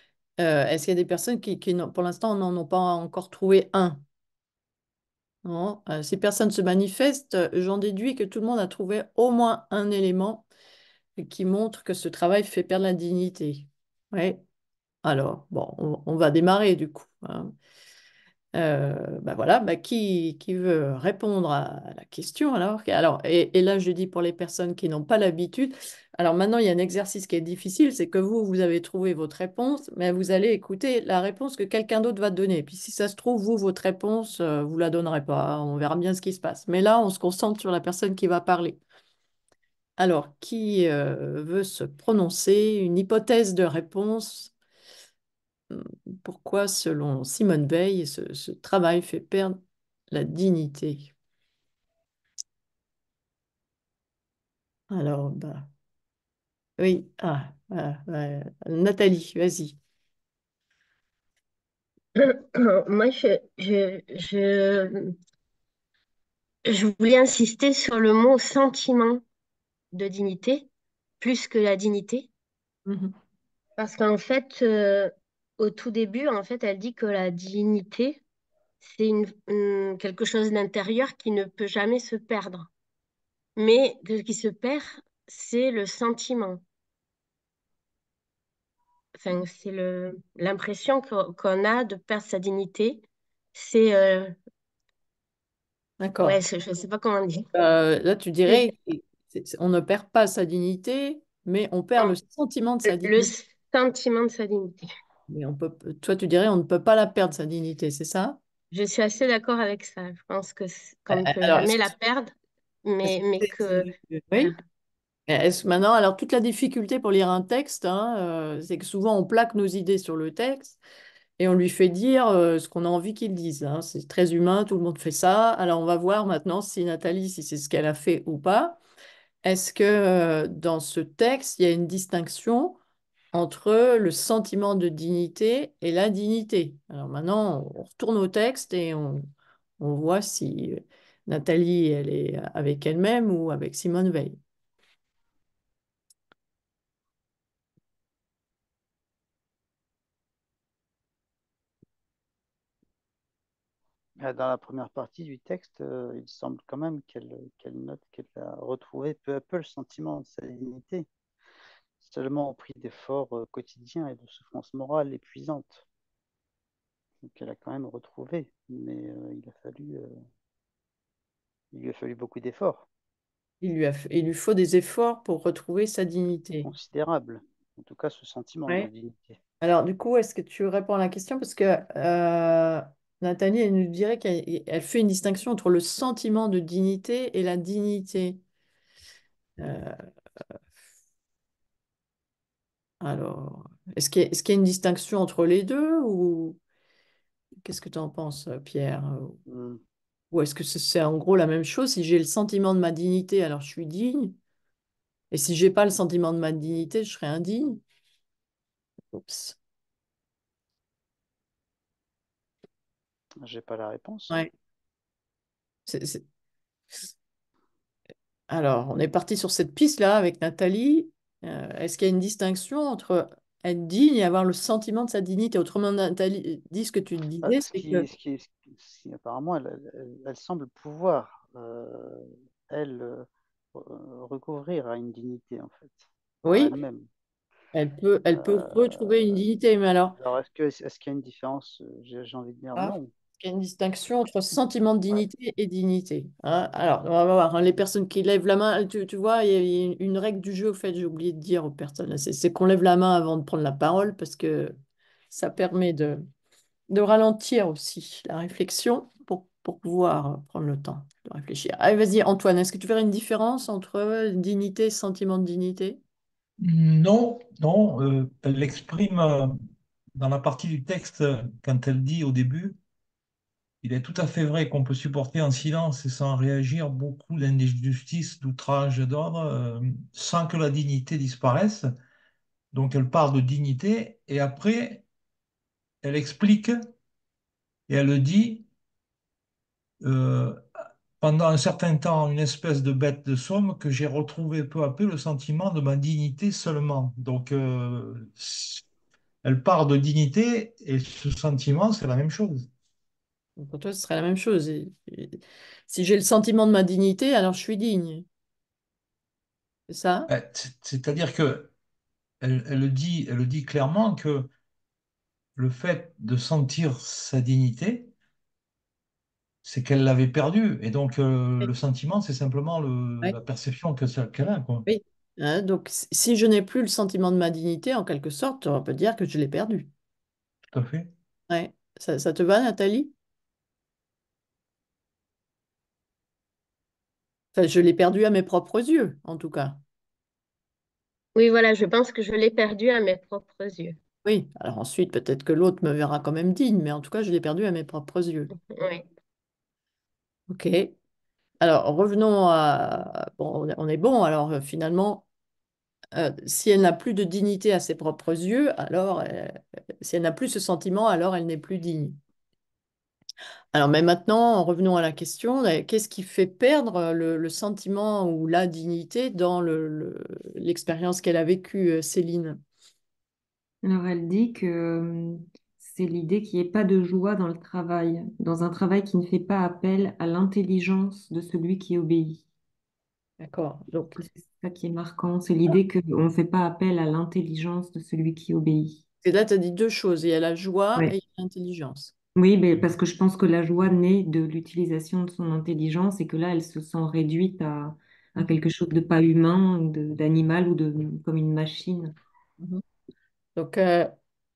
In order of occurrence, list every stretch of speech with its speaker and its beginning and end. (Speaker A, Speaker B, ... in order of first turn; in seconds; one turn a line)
Speaker A: 0.4-4.0
Speaker A: 5.5-10.5
Speaker A: 11.2-14.4
Speaker A: 15.0-17.5
Speaker A: 18.6-38.8
Speaker A: 40.0-44.5
Speaker A: 45.7-49.6
Speaker A: 50.1-51.1
Speaker A: 54.9-55.7
Speaker A: 56.8-59.8
Speaker B: 62.2-65.2
Speaker B: 66.7-69.2
Speaker B: 69.9-70.7
Speaker B: 71.2-72.3
Speaker A: 72.9-73.1
Speaker B: 73.8-78.2
Speaker B: 78.8-82.7
Speaker B: 83.6-86.6
Speaker B: 89.2-93.0
Speaker B: 93.5-94.3
Speaker A: 96.0-96.4
Speaker B: 96.2-97.5
Speaker A: 97.5-103.3
Speaker B: 102.9-104.9
Speaker A: 105.3-108.4
Speaker B: 108.7-112.3
Speaker A: 111.1-112.0
Speaker B: 112.8-114.6
Speaker A: 113.0-114.5
Speaker A: 115.3-120.8
Speaker A: 121.4-128.8
Speaker A: 129.4-132.8
Speaker A: 133.3-139.2
Speaker A: 139.8-144.4
Speaker C: 154.2-161.1
Speaker C: 162.0-165.8
Speaker C: 167.2-170.1
Speaker C: 171.7-172.9
Speaker A: 173.6-176.7
Speaker C: 176.6-179.4
Speaker A: 179.6-188.4
Speaker A: 189.6-189.9
Speaker A: 193.0-196.6
Speaker A: 197.6-199.4
Speaker C: 199.5-199.8
Speaker A: 200.3-204.4
Speaker A: 205.3-207.8
Speaker A: 209.1-209.6
Speaker C: 213.4-214.4
Speaker A: 215.9-216.2
Speaker A: 218.5-228.1
Speaker C: 227.4-237.1
Speaker A: 236.4-236.8
Speaker A: 237.7-240.2
Speaker C: 238.3-239.5
Speaker C: 240.2-243.1
Speaker A: 242.8-254.8
Speaker A: 255.3-256.2
Speaker A: 256.9-266.0
Speaker D: 266.6-269.6
Speaker D: 270.2-272.8
Speaker D: 273.8-281.9
Speaker D: 282.7-285.1
Speaker D: 286.0-286.9
Speaker D: 287.9-288.7
Speaker D: 290.0-290.6
Speaker D: 291.2-298.8
Speaker D: 299.4-302.7
Speaker A: 303.6-308.3
Speaker A: 309.9-310.3
Speaker D: 310.3-311.7
Speaker D: 312.4-314.5
Speaker D: 315.6-318.1
Speaker D: 319.6-324.9
Speaker A: 324.9-329.9
Speaker D: 330.7-331.1
Speaker A: 331.5-333.1
Speaker A: 337.6-339.8
Speaker B: 341.4-344.0
Speaker A: 344.2-348.5
Speaker B: 348.7-349.1
Speaker A: 350.5-350.9
Speaker A: 351.6-355.3
Speaker A: 356.1-362.2
Speaker A: 363.7-372.6
Speaker E: 373.8-382.4
Speaker A: 383.4-384.2
Speaker E: 384.2-389.0
Speaker A: 389.2-392.1
Speaker E: 392.4-402.1
Speaker A: 403.6-404.1